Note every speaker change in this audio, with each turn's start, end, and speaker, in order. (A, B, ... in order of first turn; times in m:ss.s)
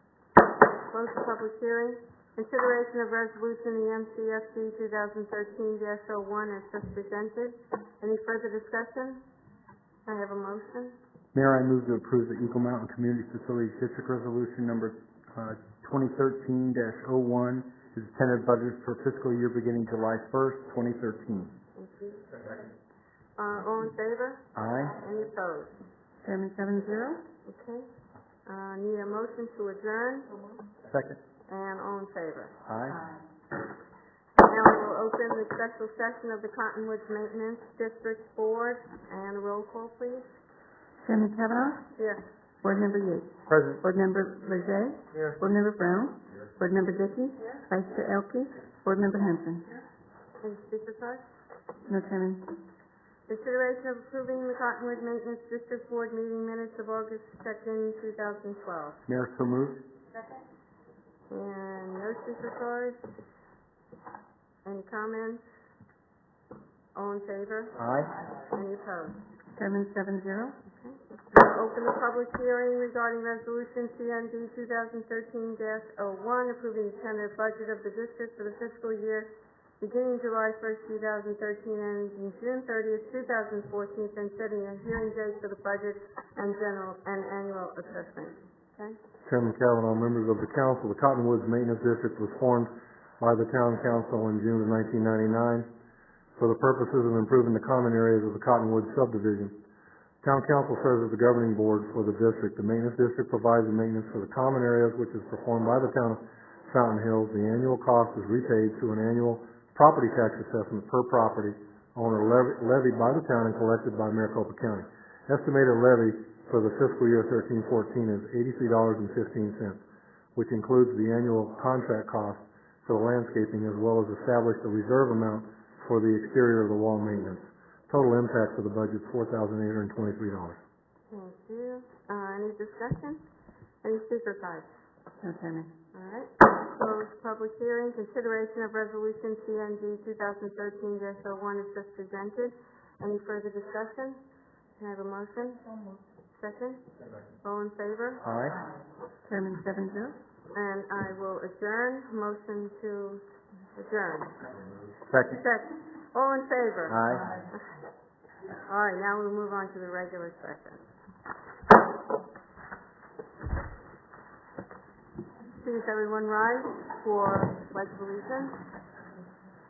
0:00.9-0:09.2 A
0:10.1-0:11.0 A
0:11.3-0:21.5 B
0:21.8-0:22.3 A
0:23.4-0:25.8 A
0:24.6-0:24.9 B
0:26.2-0:27.2 C
0:27.5-0:27.9 A
0:28.5-0:30.4 A
0:30.9-0:31.2 B
0:31.5-0:32.6 A
0:32.7-0:33.0 B
0:34.4-0:40.3 A
0:41.0-0:41.8 C
0:42.0-0:42.2 A
0:42.6-0:49.7 C
0:43.5-0:43.8 B
0:50.4-0:51.2 A
0:51.9-0:52.5 C
0:53.3-0:59.0 A
0:59.1-0:59.8 B
1:01.3-1:03.0 A
1:04.6-1:05.4 A
1:07.0-1:07.8 A
1:07.8-1:08.1 B
1:08.4-1:09.2 A
1:09.6-1:10.6 C
1:10.7-1:29.0 A
1:29.3-1:35.7 D
1:36.4-1:39.6 D
1:40.2-1:59.8 D
2:00.4-2:10.6 D
2:11.1-2:13.2 A
2:13.8-2:14.7 A
2:15.2-2:15.7 C
2:15.9-2:24.2 A
2:24.8-2:25.7 A
2:26.4-2:26.9 A
2:27.4-2:28.3 A
2:28.2-2:28.6 B
2:29.3-2:30.2 C
2:30.5-2:33.2 A
2:33.8-2:34.4 A
2:35.1-2:35.4 B
2:35.3-2:37.0 A
2:36.9-2:37.3 B
2:38.7-2:40.8 A
2:45.6-2:48.6 A